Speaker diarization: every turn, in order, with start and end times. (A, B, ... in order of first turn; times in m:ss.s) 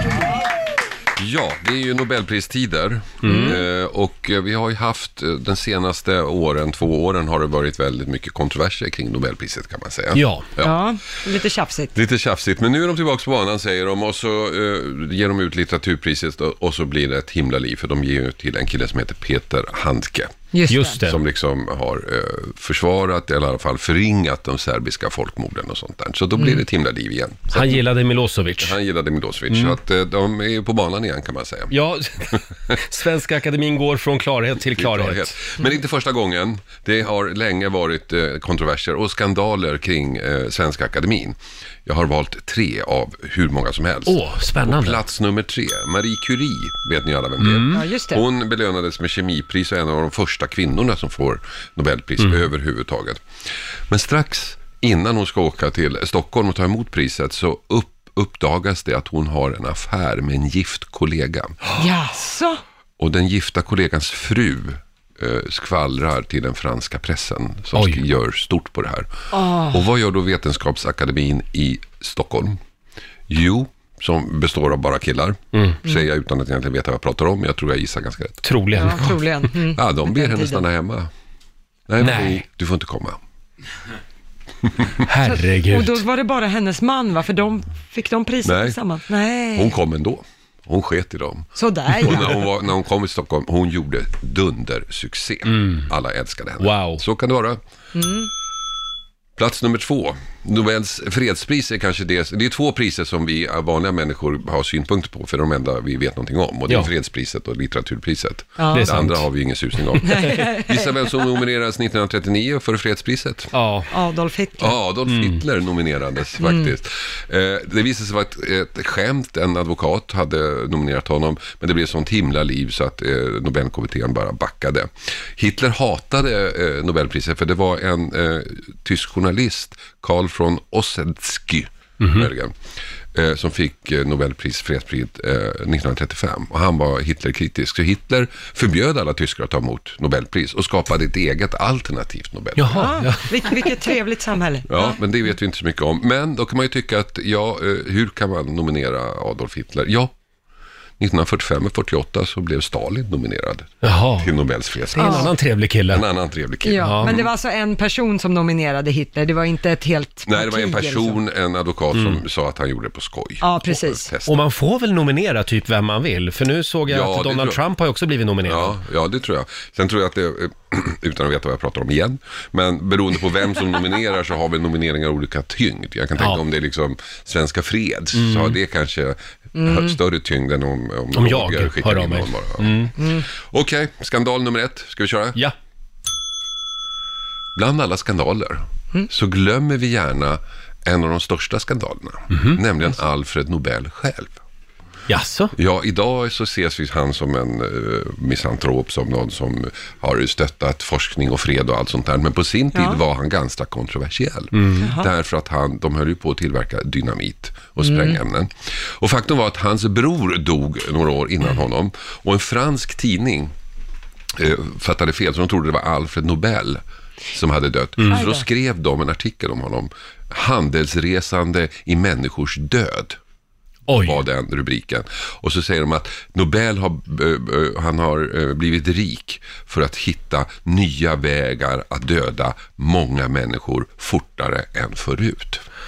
0:01.2-0:10.8 A
0:03.2-0:03.6 B
0:03.2-0:03.6 C
0:10.1-0:10.5 B
0:10.6-0:11.9 C
0:11.9-0:20.4 A
0:20.5-0:21.0 C
0:20.7-0:21.2 B
0:21.0-0:27.8 A
0:26.4-0:26.6 C
0:27.5-0:28.8 B
0:28.6-0:31.7 A
0:29.5-0:29.8 B
0:31.7-0:35.4 B
0:34.7-0:53.2 A
0:44.0-0:45.0 B
0:47.4-0:47.8 B
0:47.7-0:48.2 C
0:53.9-1:01.6 A
1:01.8-1:02.6 C
1:03.0-1:12.6 A
1:07.7-1:08.0 B
1:09.3-1:09.8 C
1:13.3-1:21.1 A
1:18.4-1:19.1 B
1:18.7-1:20.6 C
1:21.9-1:23.2 A
1:22.0-1:22.4 B
1:25.0-1:26.0 B
1:25.2-1:29.8 C
1:28.4-1:28.8 A
1:29.5-1:37.6 A
1:31.6-1:32.3 C
1:35.5-1:35.9 B
1:36.6-1:37.0 B
1:37.9-1:38.3 C
1:39.4-1:53.5 A
1:48.6-1:48.9 C
1:48.7-1:50.4 B
1:50.0-1:51.4 C
1:53.5-1:53.9 B
1:53.9-1:54.8 C
1:54.6-2:12.5 A
1:55.1-1:55.4 B
1:56.4-1:56.7 C
2:12.0-2:12.3 B
2:13.1-2:23.0 A
2:22.6-2:23.6 B
2:22.7-2:25.0 C
2:24.7-2:30.1 A
2:31.0-2:35.4 A
2:33.8-2:34.3 B
2:34.9-2:36.0 B
2:35.0-2:35.3 C
2:35.9-2:37.3 A
2:36.6-2:41.2 C
2:36.8-2:37.2 B
2:40.2-2:44.4 A
2:41.9-2:42.2 B
2:43.4-2:44.1 C
2:44.2-2:48.8 B
2:46.9-2:47.6 A
2:48.4-3:05.4 A
2:58.1-2:58.6 B
2:59.6-2:59.9 C
3:01.1-3:02.9 B
3:03.0-3:03.2 C
3:07.5-3:14.4 A
3:12.3-3:12.6 B
3:15.1-3:15.5 B
3:15.6-3:33.5 A
3:22.7-3:23.0 C
3:24.5-3:24.9 B
3:24.8-3:25.1 C
3:27.8-3:28.2 C
3:34.4-3:36.8 A
3:37.3-3:43.2 A
3:38.0-3:38.2 B
3:38.1-3:38.4 C
3:43.9-3:44.2 B
3:44.0-3:55.6 A